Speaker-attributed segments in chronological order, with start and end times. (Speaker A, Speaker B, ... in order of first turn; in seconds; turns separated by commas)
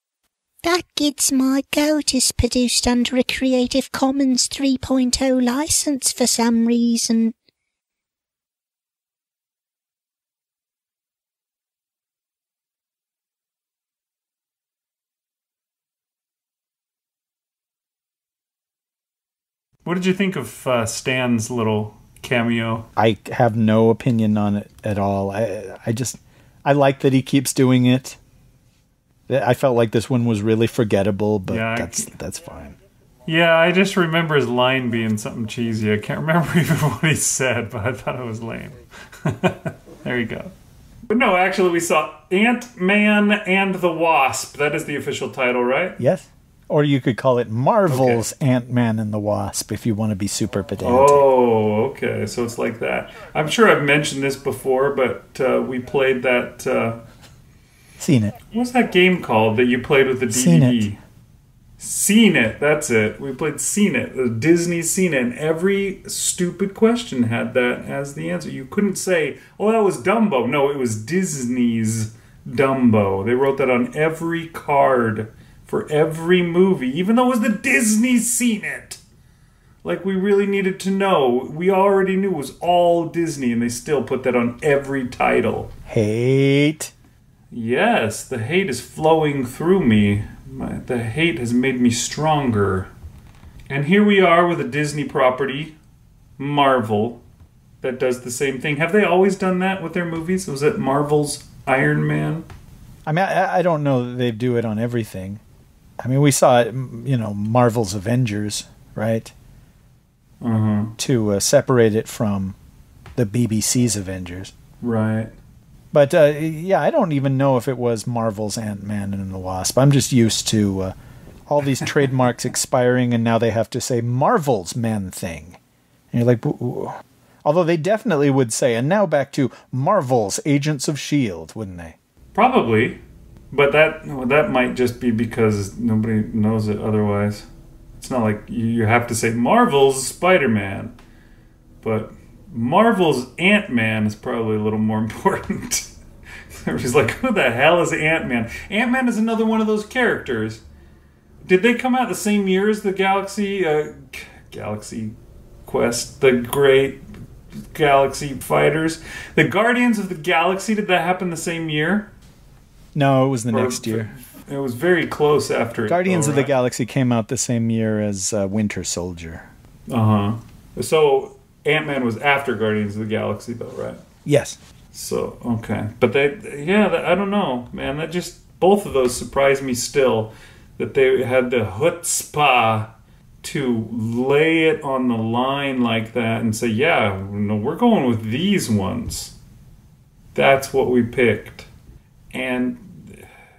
Speaker A: 0.6-7.3, Speaker B: 19.9-22.9, Speaker C: 23.0-28.2, Speaker C: 29.3-32.8, Speaker B: 31.5-32.1, Speaker B: 33.3-40.5, Speaker B: 41.1-46.0, Speaker C: 46.0-51.2, Speaker B: 47.9-48.2, Speaker B: 50.8-57.0, Speaker C: 58.0-58.4, Speaker B: 58.5-61.0, Speaker C: 60.3-60.9, Speaker B: 61.8-79.0, Speaker B: 79.8-85.7, Speaker C: 85.9-86.9, Speaker B: 87.5-92.9, Speaker B: 93.7-95.8, Speaker B: 96.4-97.2, Speaker B: 97.8-102.5, Speaker C: 103.1-105.4, Speaker C: 106.0-109.3, Speaker B: 110.4-110.9, Speaker C: 111.0-112.6, Speaker C: 113.2-114.5, Speaker B: 114.8-115.3, Speaker C: 115.9-120.9, Speaker C: 121.5-125.6, Speaker C: 126.1-132.0, Speaker B: 132.3-137.5, Speaker B: 138.0-140.9, Speaker B: 141.8-145.9, Speaker B: 146.5-150.6, Speaker B: 151.4-157.0, Speaker B: 157.7-162.1, Speaker C: 162.9-164.1, Speaker B: 163.5-166.5, Speaker C: 165.9-169.5, Speaker B: 169.9-174.0, Speaker C: 174.2-174.6, Speaker B: 174.9-189.4, Speaker B: 190.3-191.7, Speaker B: 192.3-193.2